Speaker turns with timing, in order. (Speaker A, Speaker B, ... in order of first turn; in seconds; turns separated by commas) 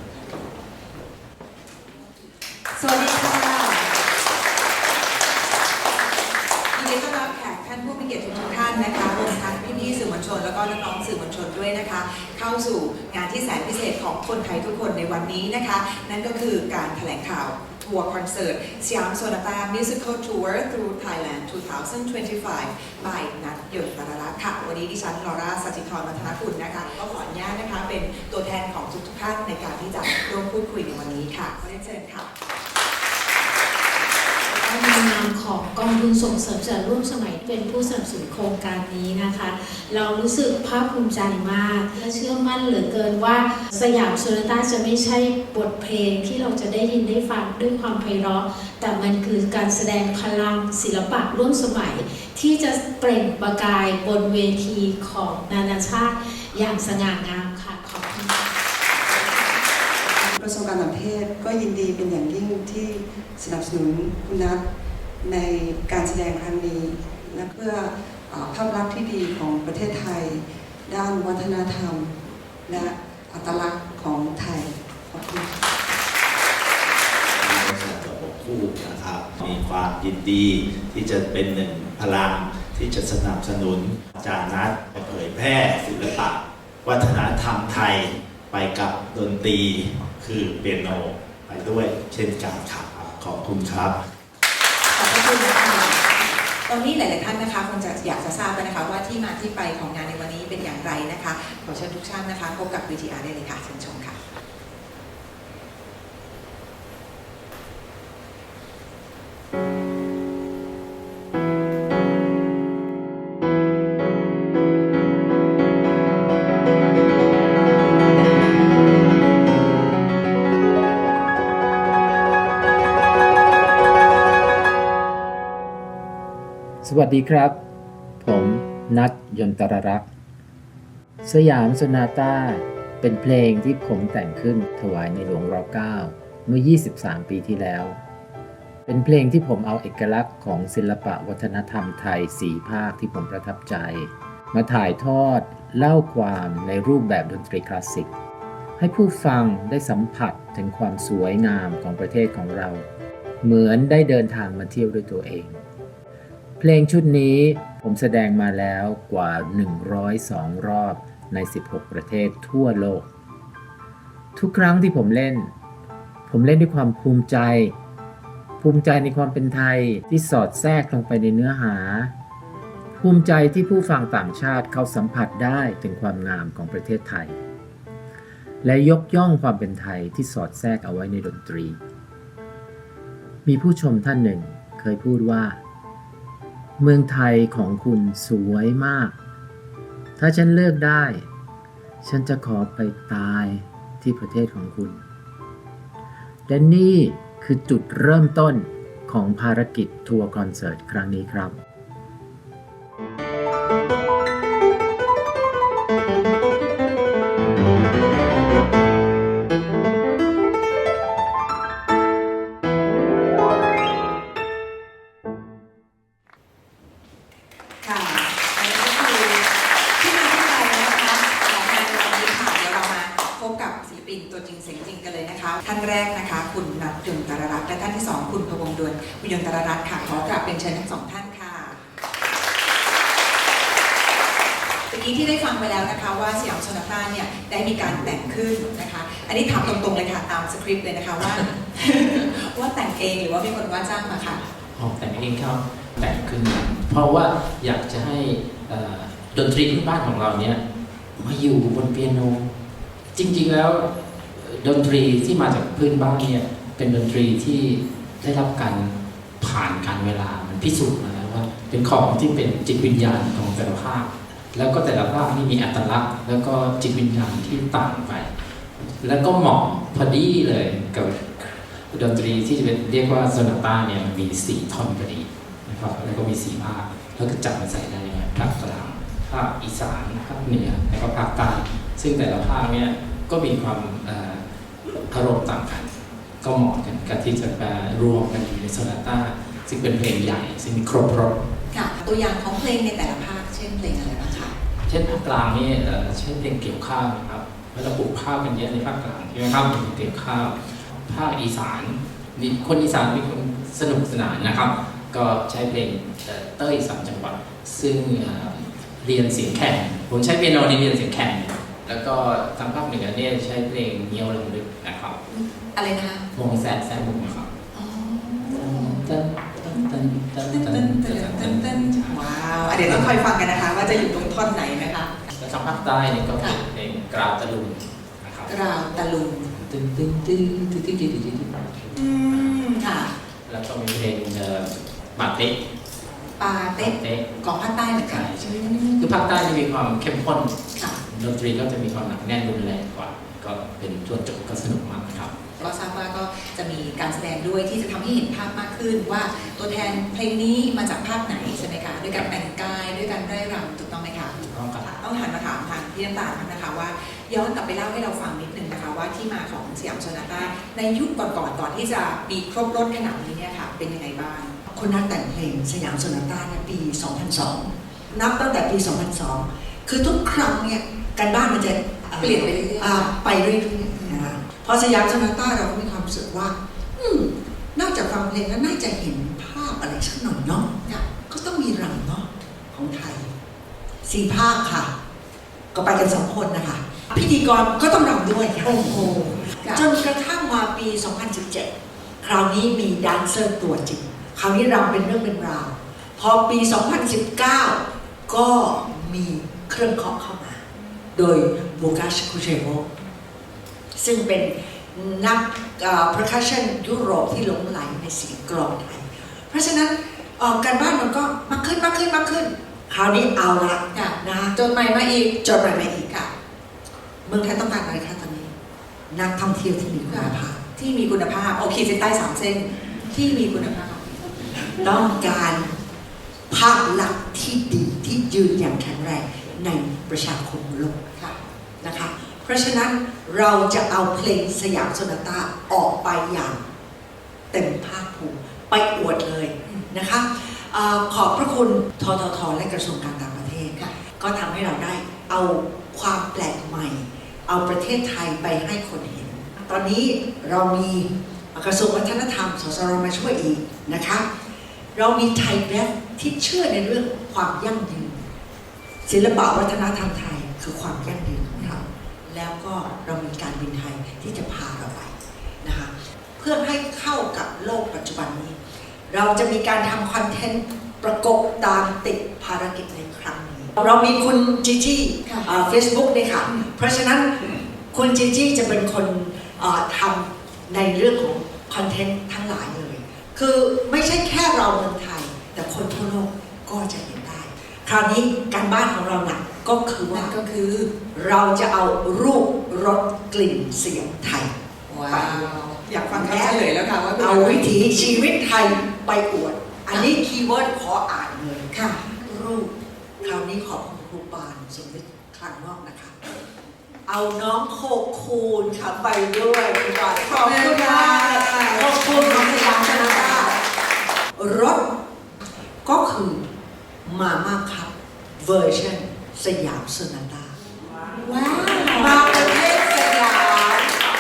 Speaker A: 2.8-3.9, Speaker A: 6.7-32.3, Speaker B: 34.6-58.4, Speaker C: 60.1-64.7, Speaker C: 65.2-75.5, Speaker D: 77.4-94.0, Speaker A: 94.9-104.2, Speaker E: 126.8-127.6, Speaker E: 128.2-130.1, Speaker E: 131.2-138.0, Speaker E: 138.9-148.1, Speaker E: 148.8-152.8, Speaker E: 153.4-155.6, Speaker E: 156.6-163.1, Speaker E: 164.4-165.5, Speaker E: 166.3-167.8, Speaker E: 168.6-172.1, Speaker E: 173.0-177.4, Speaker E: 178.6-181.8, Speaker E: 183.4-185.6, Speaker E: 186.8-189.2, Speaker E: 190.2-191.2, Speaker E: 192.0-195.0, Speaker E: 196.5-201.6, Speaker A: 217.8-231.8, Speaker A: 234.9-244.4, Speaker F: 244.8-250.6, Speaker F: 251.2-252.5, Speaker F: 253.1-284.4, Speaker F: 285.1-291.4, Speaker A: 291.7-294.5, Speaker F: 294.9-300.6, Speaker F: 301.1-315.2, Speaker A: 315.3-316.3, Speaker F: 316.3-317.5, Speaker A: 317.7-319.1, Speaker F: 318.5-322.2, Speaker A: 319.7-325.1, Speaker F: 322.8-323.2, Speaker F: 325.3-328.5, Speaker A: 328.5-329.5, Speaker F: 329.6-332.6, Speaker A: 331.9-333.1, Speaker F: 333.5-335.6, Speaker A: 336.4-339.2, Speaker F: 336.8-337.3, Speaker F: 338.1-345.3, Speaker A: 345.6-364.6, Speaker F: 354.4-354.9, Speaker G: 364.7-380.7, Speaker A: 372.2-373.1, Speaker A: 373.9-374.4, Speaker G: 381.3-383.3, Speaker G: 384.1-384.9, Speaker G: 385.7-391.7, Speaker A: 388.7-389.9, Speaker G: 392.2-400.6, Speaker G: 401.1-402.9, Speaker G: 404.0-414.6, Speaker A: 413.9-416.3, Speaker G: 415.4-416.1, Speaker G: 417.2-418.5, Speaker G: 419.1-420.6, Speaker A: 420.1-424.2, Speaker G: 424.8-425.7, Speaker G: 426.5-431.0, Speaker G: 431.8-436.6, Speaker G: 437.5-454.2, Speaker G: 454.9-458.2, Speaker G: 459.1-468.6, Speaker A: 461.5-461.8, Speaker G: 469.1-490.4, Speaker A: 475.2-475.5, Speaker A: 490.1-490.9, Speaker G: 491.1-494.5, Speaker A: 494.9-497.9, Speaker G: 495.1-495.5, Speaker G: 496.1-506.1, Speaker A: 501.7-502.0, Speaker G: 507.1-513.5, Speaker A: 510.2-513.6, Speaker G: 514.4-514.9, Speaker G: 515.9-516.4, Speaker G: 517.0-520.5, Speaker A: 521.2-522.3, Speaker G: 522.0-523.9